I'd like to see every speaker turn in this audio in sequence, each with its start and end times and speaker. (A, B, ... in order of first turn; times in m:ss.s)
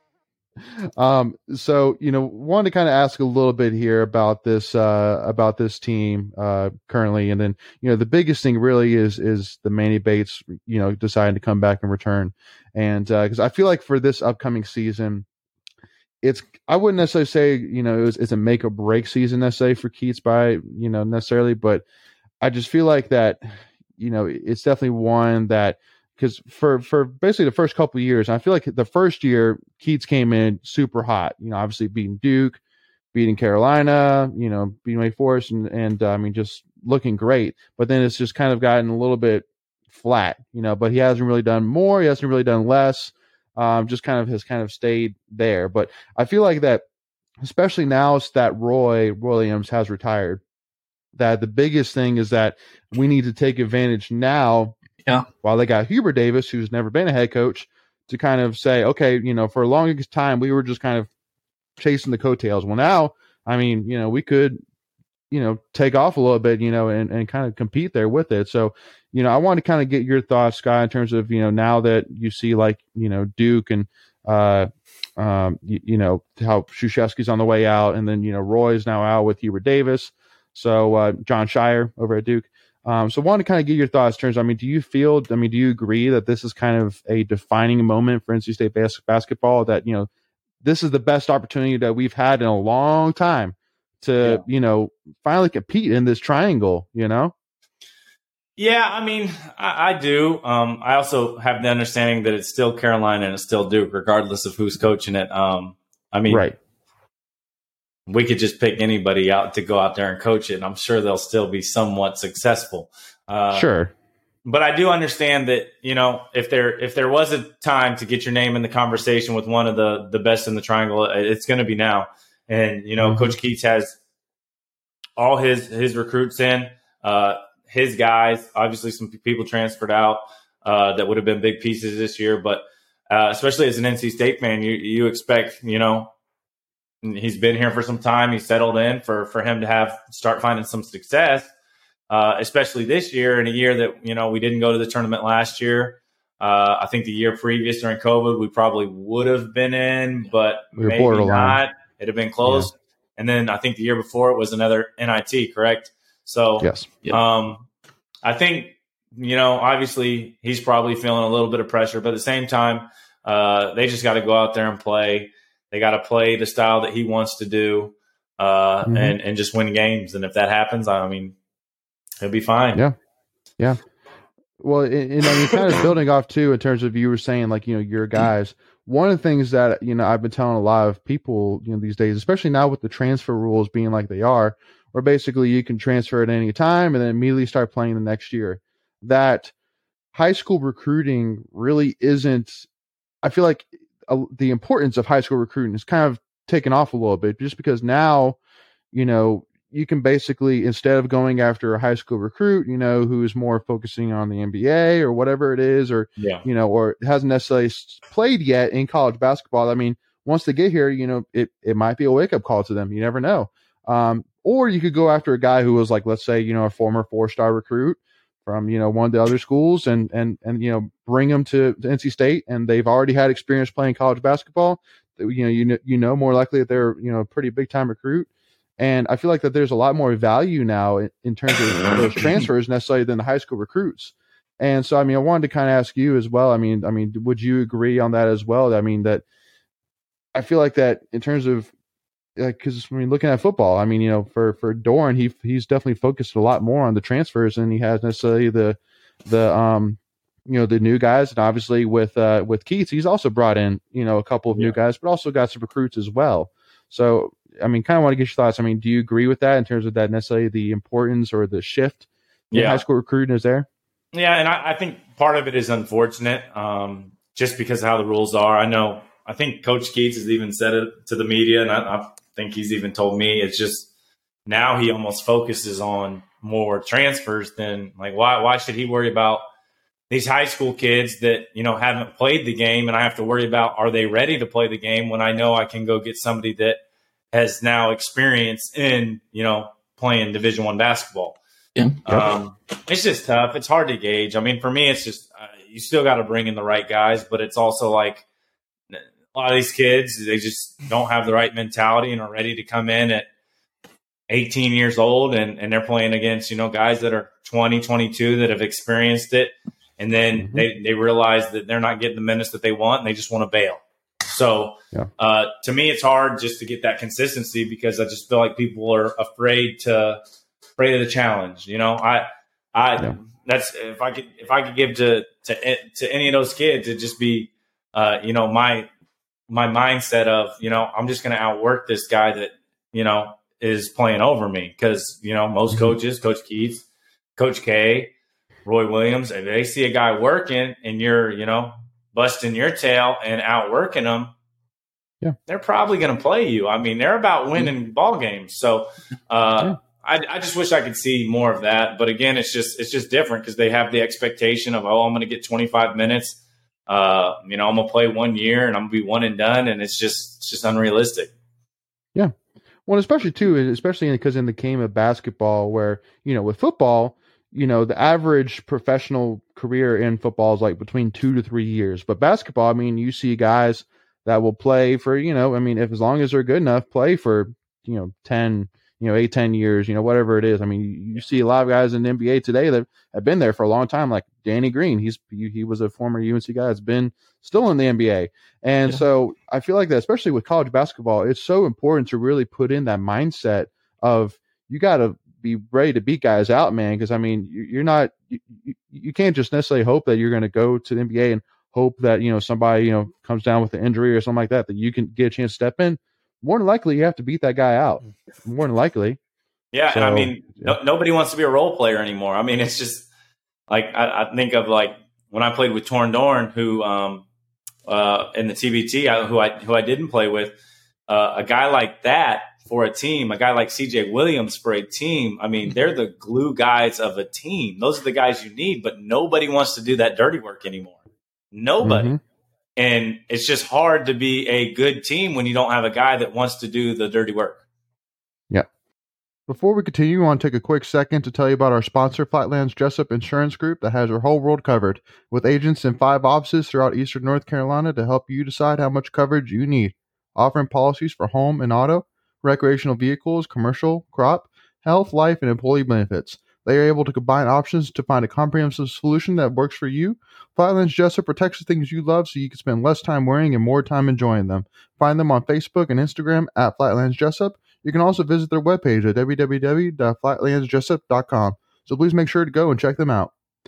0:01.0-0:15.2 A
0:16.2-0:21.8 A
0:22.4-0:23.4 A
0:24.0-0:32.6 A
0:33.1-0:46.8 A
0:47.4-0:50.4 A
0:51.1-0:54.8 A
0:55.4-1:01.1 A
1:01.8-1:04.6 A
1:05.3-1:30.1 A
1:30.6-1:37.3 A
1:38.6-1:46.4 B
1:46.3-1:46.6 A
1:48.1-1:53.7 B
1:53.5-1:53.9 A
1:54.4-2:04.0 B
2:03.0-2:03.3 A
2:05.2-2:16.1 B
2:17.0-2:21.5 B
2:22.1-2:37.6 B
2:30.8-2:31.6 A
2:32.4-2:32.7 A
2:36.6-2:36.9 A
2:38.2-2:51.4 B
2:48.8-2:49.2 A
2:52.2-2:52.8 B
2:54.6-3:09.5 A
3:10.1-3:12.7 A
3:13.2-3:18.4 A
3:18.9-3:59.2 A
3:26.2-3:26.4 B
3:51.8-3:52.4 B
4:00.3-4:01.7 A
4:02.4-4:23.7 A
4:22.5-4:22.8 B
4:24.1-4:33.9 B
4:34.4-4:39.4 B
4:40.1-4:46.8 B
4:47.3-4:51.4 B
4:52.0-4:58.2 B
4:58.9-5:03.3 B
5:04.3-5:20.2 B
5:10.3-5:10.6 A
5:20.8-5:28.9 B
5:29.5-5:36.8 B
5:37.4-5:38.1 B
5:38.6-5:44.3 B
5:45.5-6:01.3 B
6:02.8-6:49.2 A
6:49.7-6:53.1 B
6:49.9-6:50.7 A
6:53.7-6:57.2 B
6:57.9-7:00.6 B
7:01.1-7:11.0 B
7:11.5-7:12.1 B
7:11.8-7:12.2 A
7:12.8-7:17.6 B
7:19.5-7:53.3 A